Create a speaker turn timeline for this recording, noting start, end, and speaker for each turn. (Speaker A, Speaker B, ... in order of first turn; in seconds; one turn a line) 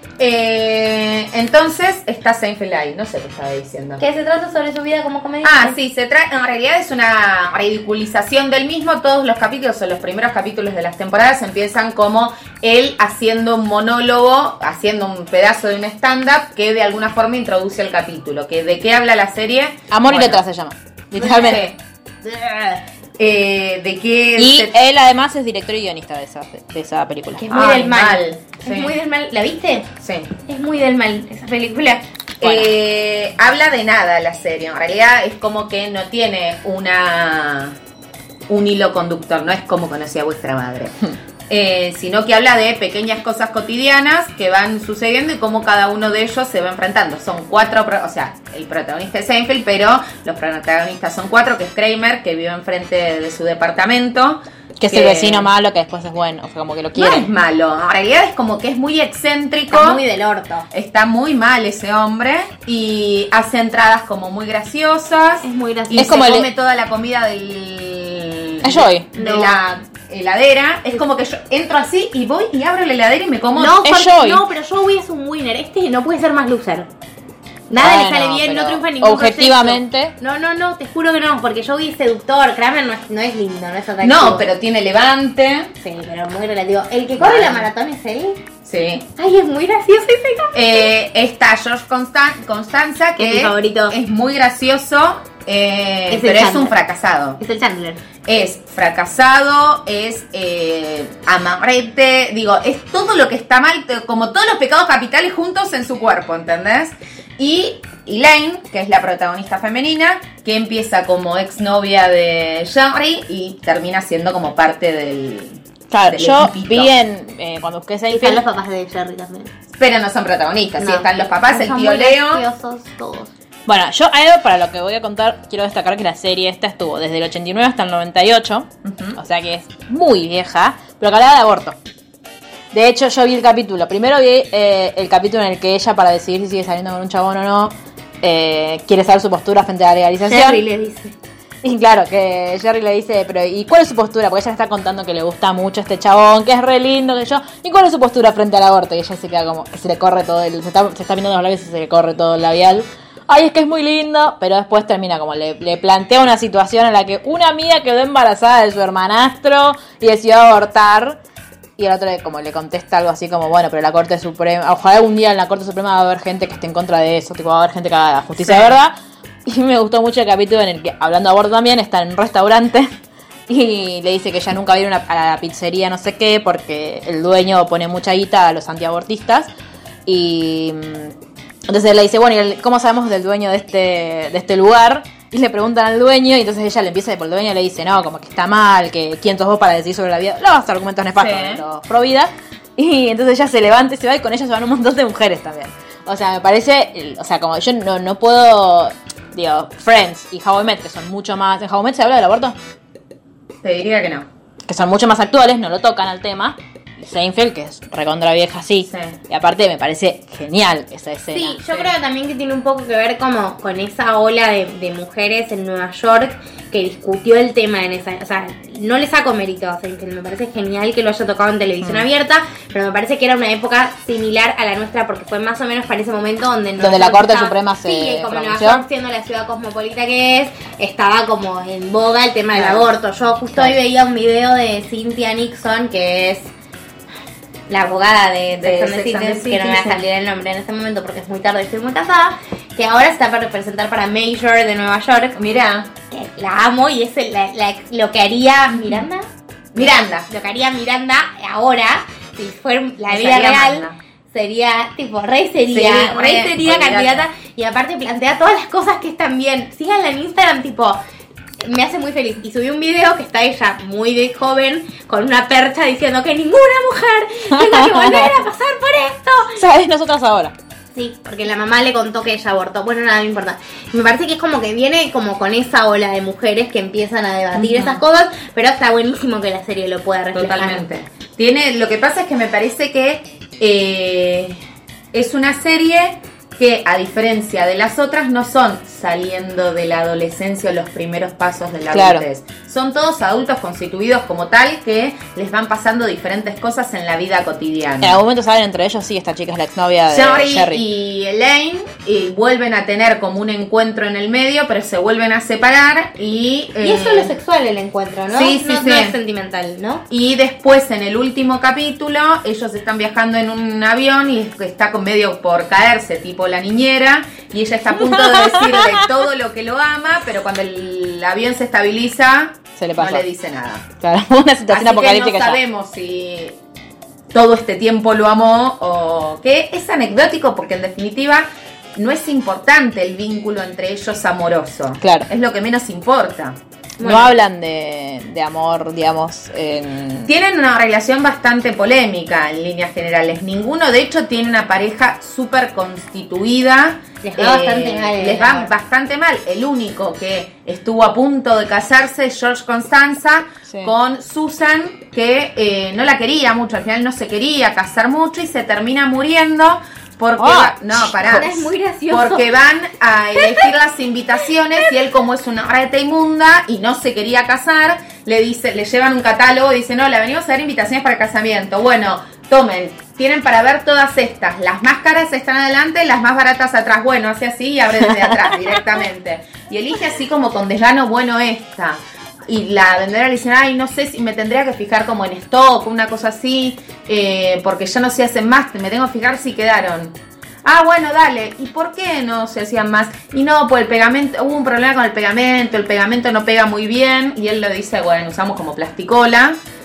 Speaker A: 0.2-4.0
Speaker B: 4.0-5.8
Speaker A: 5.4-20.4
Speaker C: 19.9-21.7
Speaker A: 21.1-21.7
Speaker A: 22.5-24.7
Speaker C: 24.4-27.6
Speaker B: 27.4-29.9
Speaker A: 27.5-28.9
Speaker A: 30.0-30.3
Speaker B: 30.4-32.0
Speaker A: 32.4-37.8
Speaker C: 32.4-32.7
Speaker A: 38.5-41.0
Speaker A: 41.5-55.5
Speaker C: 54.8-57.3
Speaker A: 56.9-60.0
Speaker B: 59.7-60.7
Speaker A: 60.7-73.8
Speaker B: 65.4-66.1
Speaker C: 66.0-66.5
Speaker C: 68.6-69.1
Speaker B: 69.1-69.6
Speaker B: 73.5-76.9
Speaker C: 73.8-74.4
Speaker B: 77.7-84.5
Speaker C: 77.8-80.1
Speaker A: 84.0-85.7
Speaker B: 85.8-88.4
Speaker A: 87.2-87.7
Speaker A: 88.6-89.1
Speaker B: 89.2-90.9
Speaker A: 90.5-97.4
Speaker B: 93.2-94.0
Speaker B: 96.1-96.7
Speaker B: 97.4-98.0
Speaker A: 98.2-116.9
Speaker C: 115.9-118.4
Speaker B: 118.1-119.5
Speaker A: 119.8-122.4
Speaker B: 120.8-123.3
Speaker C: 123.7-131.8
Speaker A: 128.8-129.2
Speaker C: 132.7-140.6
Speaker B: 140.2-141.1
Speaker C: 141.6-161.2
Speaker C: 161.8-168.9
Speaker A: 168.4-168.7
Speaker C: 169.4-172.9
Speaker C: 173.5-179.5
Speaker C: 180.1-181.1
Speaker C: 181.7-202.6
Speaker A: 191.2-191.6
Speaker A: 203.6-204.3
Speaker C: 204.7-211.8
Speaker A: 208.9-209.2
Speaker B: 211.3-236.5
Speaker C: 226.8-228.8
Speaker B: 237.7-245.4
Speaker A: 238.6-240.0
Speaker A: 245.3-245.9
Speaker B: 246.1-261.0
Speaker A: 249.7-250.3
Speaker A: 253.1-254.0
Speaker A: 255.7-257.2
Speaker B: 261.6-269.6
Speaker C: 267.5-268.3
Speaker C: 269.6-270.5
Speaker B: 270.9-280.8
Speaker A: 277.6-278.0
Speaker A: 280.3-284.6
Speaker A: 285.1-298.2
Speaker C: 291.9-292.2
Speaker C: 298.0-300.8
Speaker A: 300.1-307.3
Speaker B: 306.8-310.0
Speaker A: 308.3-309.1
Speaker A: 310.1-323.9
Speaker C: 317.9-319.1
Speaker C: 322.8-323.2
Speaker C: 324.0-325.6
Speaker A: 324.7-326.6
Speaker A: 327.3-336.6
Speaker C: 335.0-335.3
Speaker B: 337.0-337.3
Speaker C: 337.0-340.3
Speaker A: 340.2-399.6
Speaker B: 347.2-348.7
Speaker C: 360.4-361.1
Speaker B: 361.2-362.5
Speaker B: 363.4-363.7
Speaker C: 378.0-378.8